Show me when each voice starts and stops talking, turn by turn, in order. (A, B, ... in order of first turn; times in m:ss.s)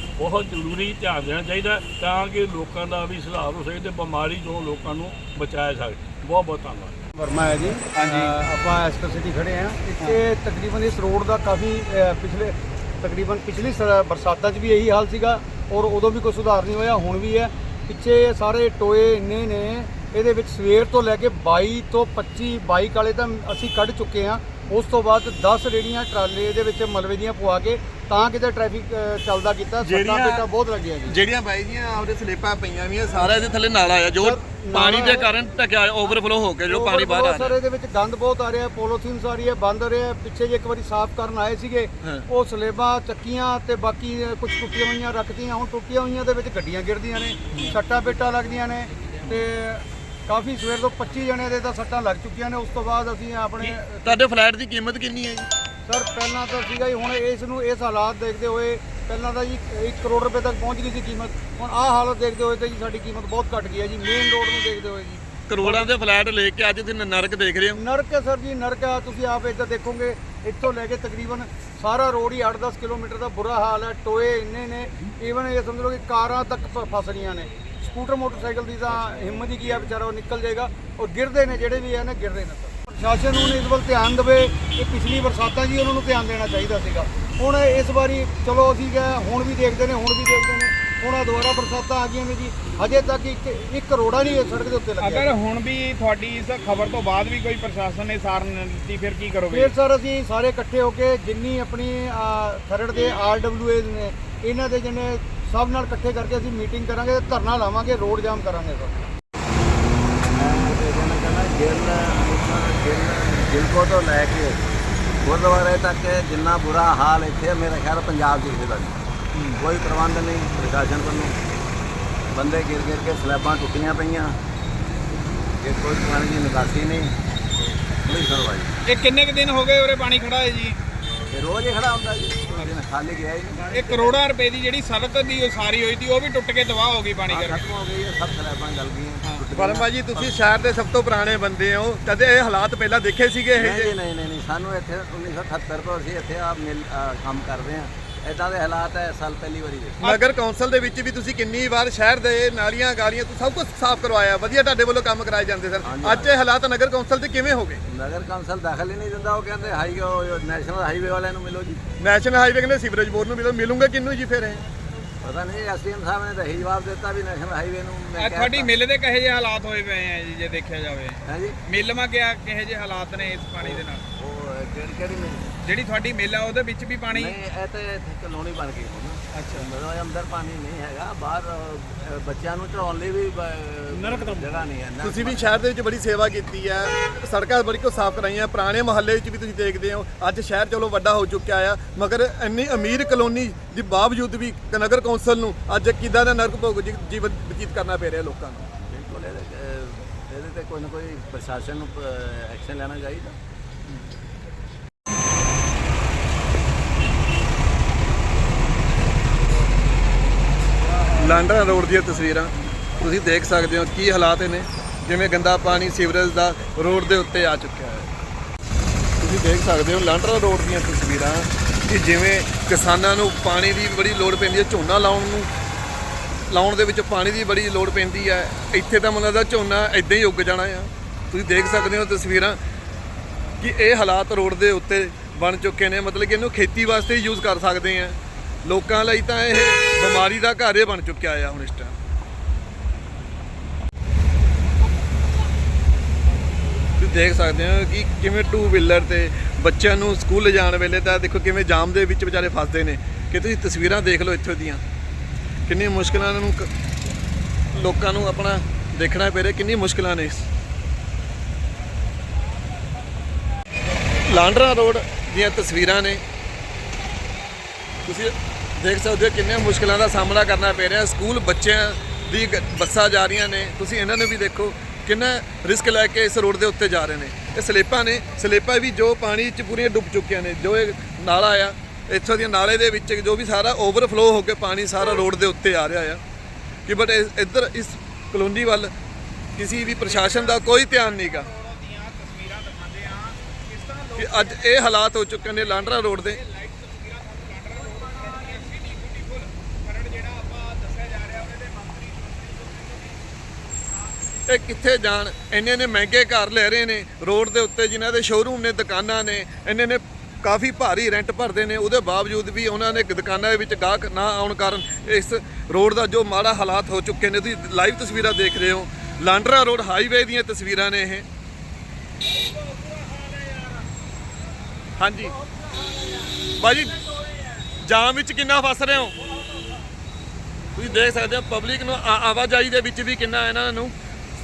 0:00.2-0:07.0 A
0:07.1-0:31.2 B
0:07.9-0:08.3 C
0:29.8-0:30.4 D
0:31.1-0:37.6 D
0:34.2-0:35.3 B
0:36.7-0:54.1 B
0:42.0-0:42.3 D
0:53.6-0:55.5 D
0:55.8-1:05.8 B
1:05.5-1:07.8 D
1:07.7-1:35.3 B
1:35.0-1:39.7 C
1:39.5-1:49.1 B
1:50.3-1:54.6 E
1:55.2-2:01.4 E
2:02.3-2:04.4 E
2:05.6-2:08.7 E
2:08.8-2:10.8 C
2:11.3-2:14.2 E
2:13.7-2:17.6 C
2:17.2-2:20.3 E
2:19.5-2:23.9 D
2:23.5-2:30.2 E
2:30.0-2:37.8 D
2:35.8-2:36.4 E
2:37.8-2:41.8 E
2:42.0-2:44.6 D
2:45.2-2:48.7 E
2:48.2-2:54.0 C
2:51.2-2:51.6 E
2:53.6-2:55.5 E
2:55.6-2:57.4 C
2:57.1-3:05.5 E
2:59.3-2:59.7 C
3:05.0-3:18.7 D
3:18.8-3:23.4 E
3:31.1-3:38.1 D
3:39.2-3:45.5 D
3:46.5-3:52.6 D
3:53.6-4:01.9 D
4:07.0-4:14.8 D
4:15.7-4:16.7 D
4:17.7-4:20.5 D
4:24.2-4:26.2 D
4:28.0-4:46.2 D
4:46.9-4:48.9 D
4:49.6-4:51.5 D
4:50.1-4:54.8 C
4:54.2-4:56.4 D
4:56.0-5:03.2 C
5:03.8-5:04.3 C
5:04.5-5:21.2 D
5:25.0-5:25.4 D
5:26.4-5:27.0 D
5:27.7-5:29.2 D
5:30.7-5:33.9 D